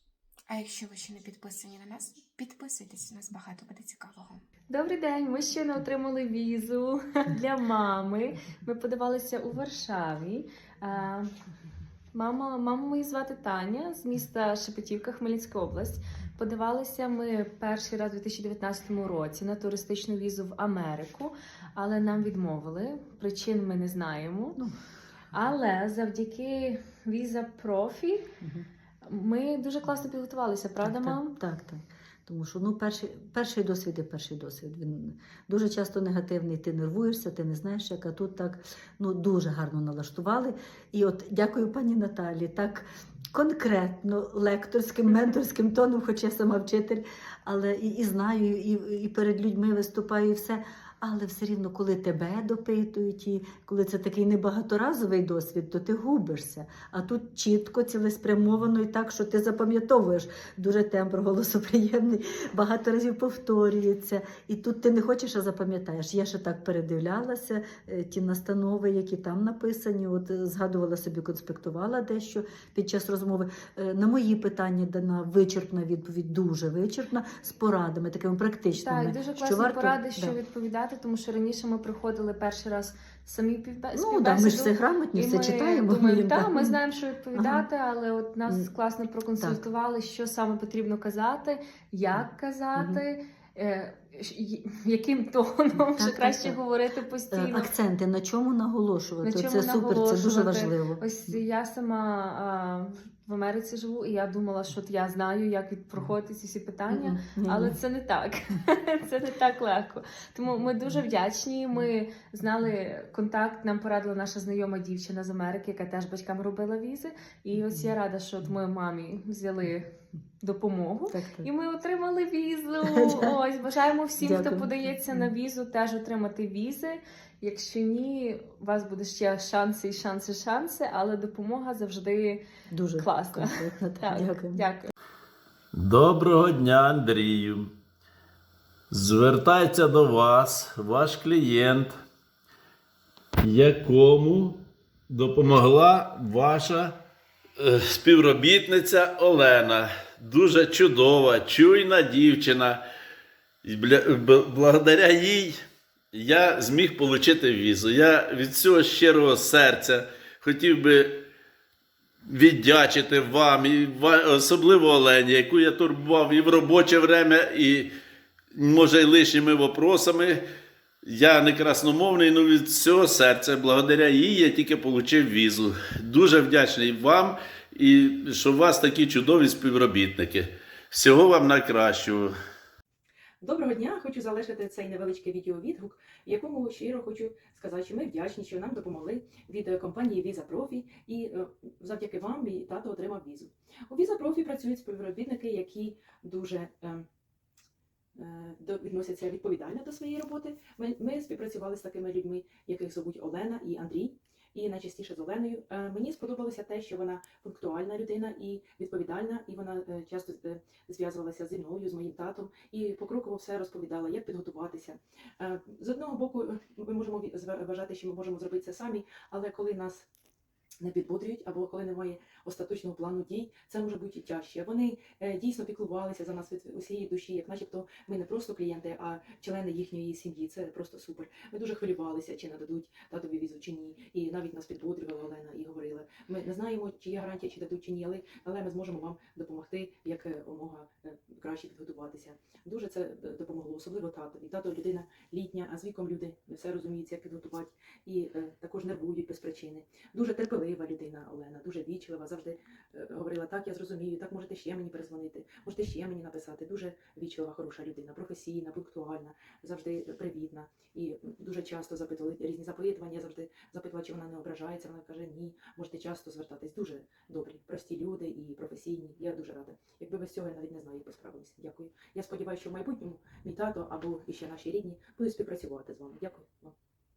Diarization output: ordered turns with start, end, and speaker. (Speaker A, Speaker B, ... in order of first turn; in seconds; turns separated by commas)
Speaker A: 0.5-4.4, Speaker B: 4.7-11.3, Speaker B: 12.1-24.6, Speaker B: 25.3-28.2, Speaker C: 28.4-28.7, Speaker B: 29.1-31.3, Speaker C: 30.8-80.3, Speaker B: 78.7-97.7, Speaker C: 83.9-86.8, Speaker C: 87.3-87.7, Speaker C: 89.4-89.6, Speaker C: 92.8-93.0, Speaker C: 95.9-96.6, Speaker C: 97.3-101.4, Speaker B: 99.2-119.9, Speaker C: 106.9-107.7, Speaker B: 120.4-132.4, Speaker C: 121.1-121.5, Speaker C: 122.9-123.3, Speaker C: 124.2-125.3, Speaker C: 132.7-134.7, Speaker B: 133.0-134.9, Speaker D: 135.7-137.7, Speaker D: 138.9-142.0, Speaker D: 143.4-147.0, Speaker D: 147.6-152.8, Speaker D: 153.6-155.6, Speaker D: 156.1-161.2, Speaker D: 162.3-167.9, Speaker D: 168.5-170.4, Speaker D: 171.0-182.3, Speaker E: 183.4-197.0, Speaker E: 198.2-220.1, Speaker E: 220.8-276.7